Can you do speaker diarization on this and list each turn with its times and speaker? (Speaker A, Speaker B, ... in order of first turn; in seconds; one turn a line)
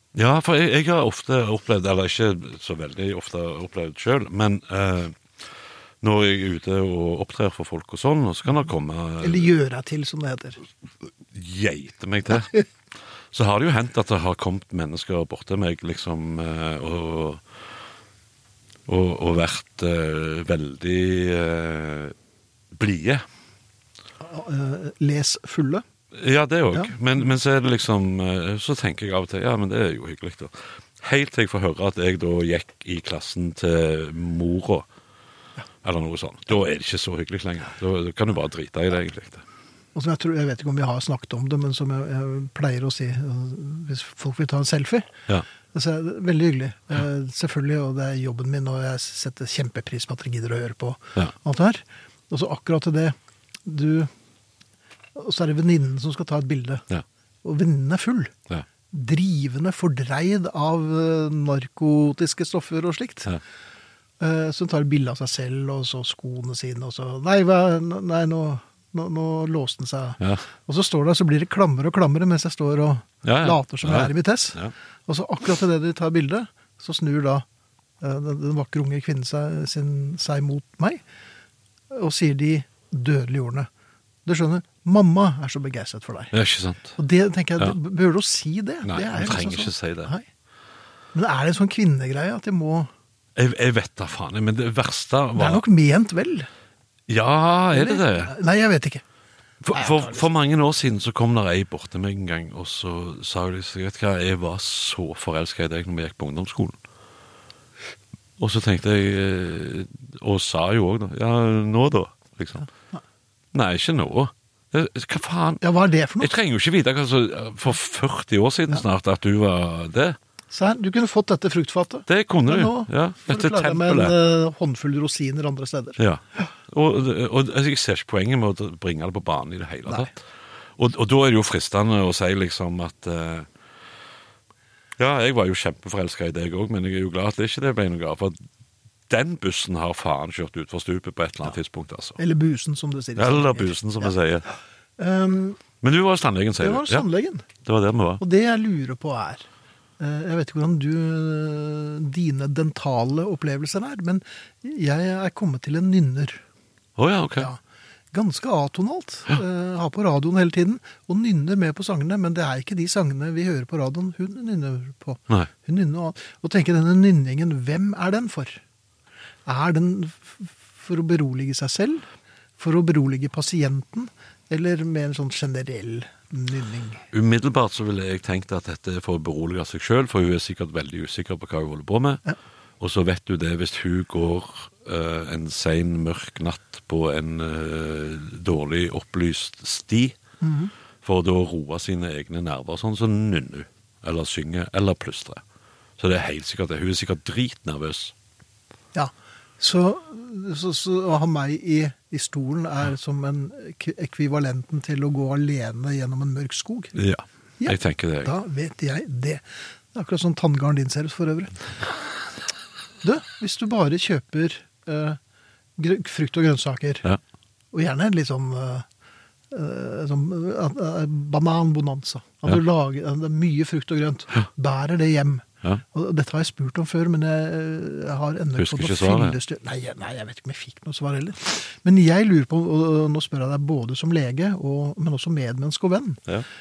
Speaker A: 0.1-5.5
Speaker A: 6.0-9.5
Speaker B: 9.2-10.6
Speaker A: 11.3-12.7
Speaker A: 13.3-17.4
Speaker A: 18.9-22.1
Speaker A: 22.7-23.2
Speaker B: 24.2-25.8
Speaker A: 26.1-34.9
Speaker A: 35.8-39.4
Speaker B: 40.0-45.1
Speaker B: 45.7-54.1
Speaker B: 55.1-56.9
Speaker B: 57.4-58.3
Speaker B: 58.9-63.4
Speaker B: 64.2-77.5
Speaker A: 73.2-74.7
Speaker B: 78.0-81.0
Speaker B: 81.9-83.7
Speaker B: 84.2-86.3
Speaker A: 86.3-87.0
Speaker B: 87.0-90.3
Speaker A: 88.8-90.1
Speaker B: 91.1-92.9
Speaker A: 93.4-95.6
Speaker B: 95.4-96.5
Speaker A: 97.1-98.3
Speaker B: 97.7-99.0
Speaker A: 99.6-106.8
Speaker B: 99.7-100.2
Speaker A: 108.4-112.7
Speaker A: 113.5-115.6
Speaker B: 115.6-116.3
Speaker A: 116.2-120.2
Speaker B: 120.5-126.0
Speaker A: 122.1-124.2
Speaker A: 126.0-130.2
Speaker A: 130.8-133.5
Speaker A: 135.0-138.4
Speaker A: 139.1-142.2
Speaker B: 142.2-144.1
Speaker A: 143.2-144.5
Speaker B: 145.0-145.6
Speaker A: 145.8-147.1
Speaker B: 146.6-147.5
Speaker A: 147.6-148.2
Speaker B: 148.2-149.5
Speaker B: 150.0-156.4
Speaker A: 157.0-157.5
Speaker B: 158.1-168.6
Speaker B: 169.5-172.1
Speaker B: 172.6-177.0
Speaker A: 177.1-182.2
Speaker A: 182.8-190.2
Speaker B: 190.4-190.7
Speaker A: 191.0-195.4
Speaker A: 196.0-198.1
Speaker B: 198.9-207.0
Speaker A: 206.9-208.3
Speaker B: 207.6-211.6
Speaker B: 213.0-215.2
Speaker B: 215.8-217.1
Speaker B: 217.7-218.9
Speaker B: 219.5-236.2
Speaker A: 228.6-229.4